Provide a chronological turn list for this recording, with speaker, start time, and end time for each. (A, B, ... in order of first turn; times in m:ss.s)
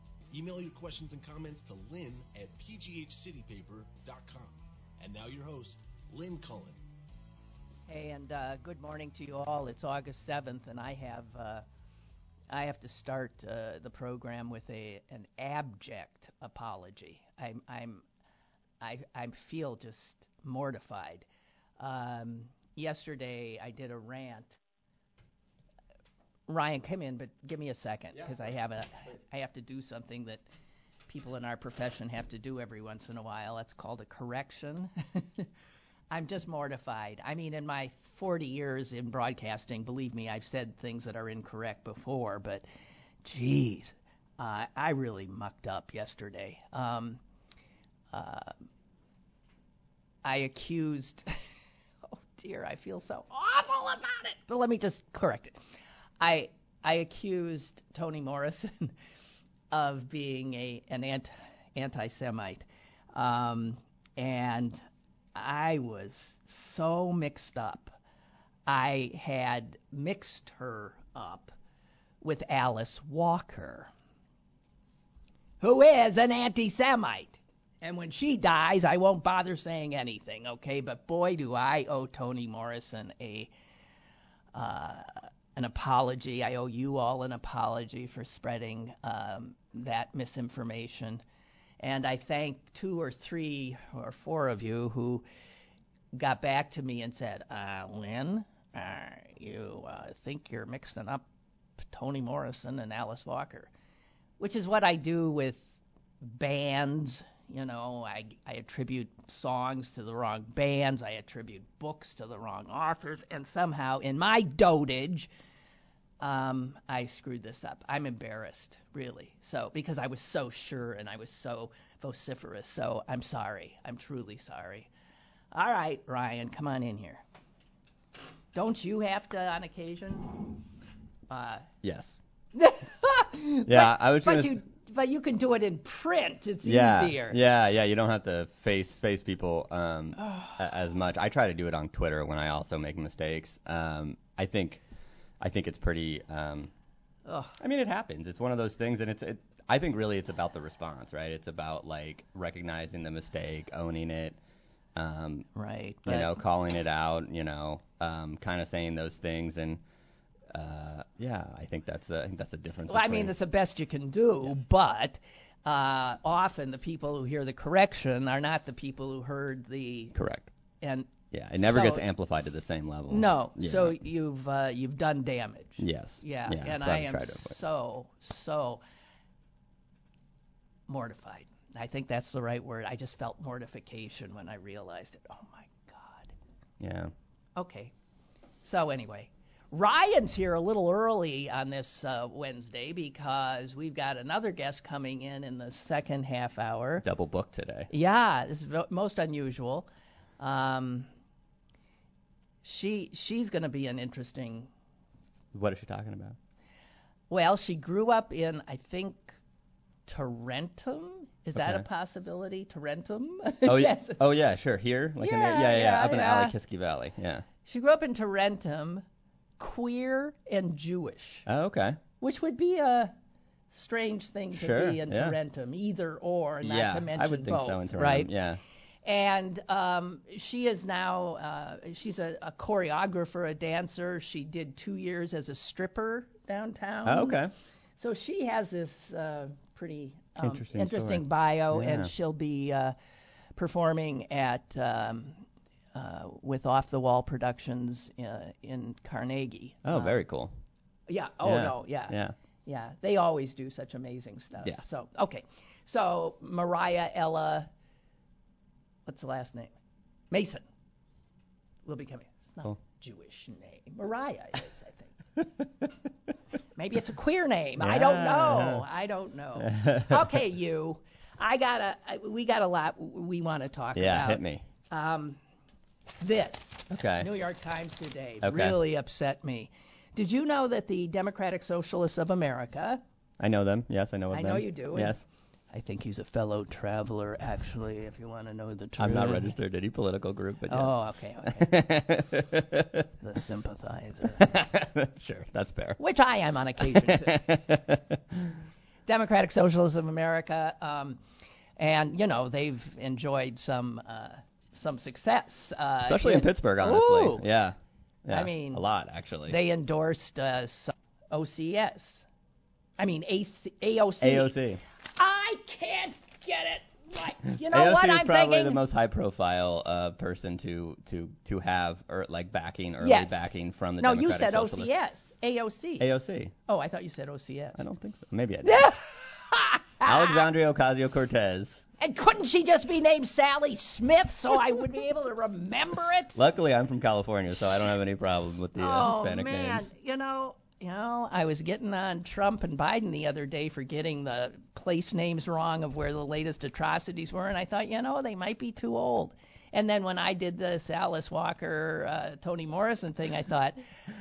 0:00.3-0:06.8 A
0:07.9-0:11.6 B
0:12.5-0:18.0 B
0:18.8-0:21.3 B
0:21.8-0:24.6 B
0:26.5-0:30.4 B
0:31.1-0:35.5 B
0:36.1-0:42.7 B
0:43.2-0:47.2 B
0:48.1-0:48.6 B
0:50.2-0:51.3 B
0:52.1-0:55.6 B
0:56.2-0:59.0 B
0:59.7-1:04.8 B
1:05.4-1:08.0 B
1:08.7-1:11.6 B
1:12.2-1:13.9 B
1:15.6-1:23.5 B
1:24.5-1:31.2 B
1:31.8-1:35.2 B
1:36.2-1:41.2 B
1:41.8-1:43.7 B
1:44.4-1:55.3 B
1:56.2-2:04.9 B
2:05.5-2:07.2 B
2:08.5-2:10.6 B
2:11.3-2:11.7 B
2:11.8-2:12.2 C
2:12.6-2:17.4 B
2:13.7-2:14.6 C
2:16.6-2:24.8 C
2:20.2-2:20.6 B
2:25.4-2:26.7 C
2:27.3-2:27.6 B
2:27.6-2:34.4 C
2:35.0-2:35.5 C
2:35.6-2:36.4 B
2:36.0-2:39.8 C
2:40.5-2:43.3 C
2:42.9-2:50.2 B
2:50.1-2:50.5 C
2:50.8-2:52.0 B
2:51.3-2:54.0 C
2:53.1-2:58.8 B
2:55.8-2:57.6 C
3:00.9-3:06.3 B
3:06.8-3:07.1 C
3:07.6-3:07.9 B
3:08.6-3:17.0 B
3:17.0-3:17.9 C
3:17.9-3:21.1 B
3:22.6-3:24.7 B
3:25.5-3:26.4 C
3:27.3-3:29.4 B
3:30.1-3:34.2 B
3:31.6-3:31.8 C
3:33.6-3:37.5 C
3:35.2-3:36.5 B
3:37.6-3:39.0 B
3:39.6-3:41.5 B
3:41.5-3:42.0 C
3:42.2-3:43.1 B
3:43.7-3:48.3 B
3:44.5-3:45.4 C
3:46.6-3:48.6 C
3:49.0-3:57.4 B
3:57.0-3:57.5 C
3:58.0-4:03.0 B
4:00.4-4:02.1 C
4:03.6-4:10.2 B
4:09.8-4:10.5 C
4:11.1-4:17.7 B
4:11.4-4:12.4 C
4:19.1-4:19.7 B
4:20.3-4:20.6 B
4:21.8-4:25.2 B
4:26.8-4:35.4 B
4:27.8-4:28.9 C
4:29.6-4:30.4 C
4:34.0-4:34.6 C
4:36.2-4:43.0 B
4:36.9-4:37.3 C
4:38.4-4:38.8 C
4:43.4-4:45.2 C
4:44.3-4:49.5 B
4:49.0-4:50.9 C
4:50.7-4:51.9 B
4:51.4-4:53.1 C
4:53.2-4:54.4 B
4:54.4-4:56.0 C
4:56.0-4:57.4 B
4:56.9-4:58.6 C
4:59.1-5:01.2 B
5:01.8-5:07.5 B
5:06.0-5:09.6 C
5:08.3-5:08.8 B
5:09.5-5:12.3 B
5:13.0-5:14.5 B
5:14.2-5:14.8 C
5:15.2-5:18.8 B
5:17.6-5:24.9 C
5:23.0-5:23.5 B
5:24.0-5:26.1 B
5:26.0-5:26.5 C
5:26.7-5:27.8 B
5:27.8-5:28.9 C
5:28.6-5:30.5 B
5:30.0-5:31.8 C
5:32.0-5:36.4 B
5:36.4-5:39.9 C
5:38.8-5:53.8 B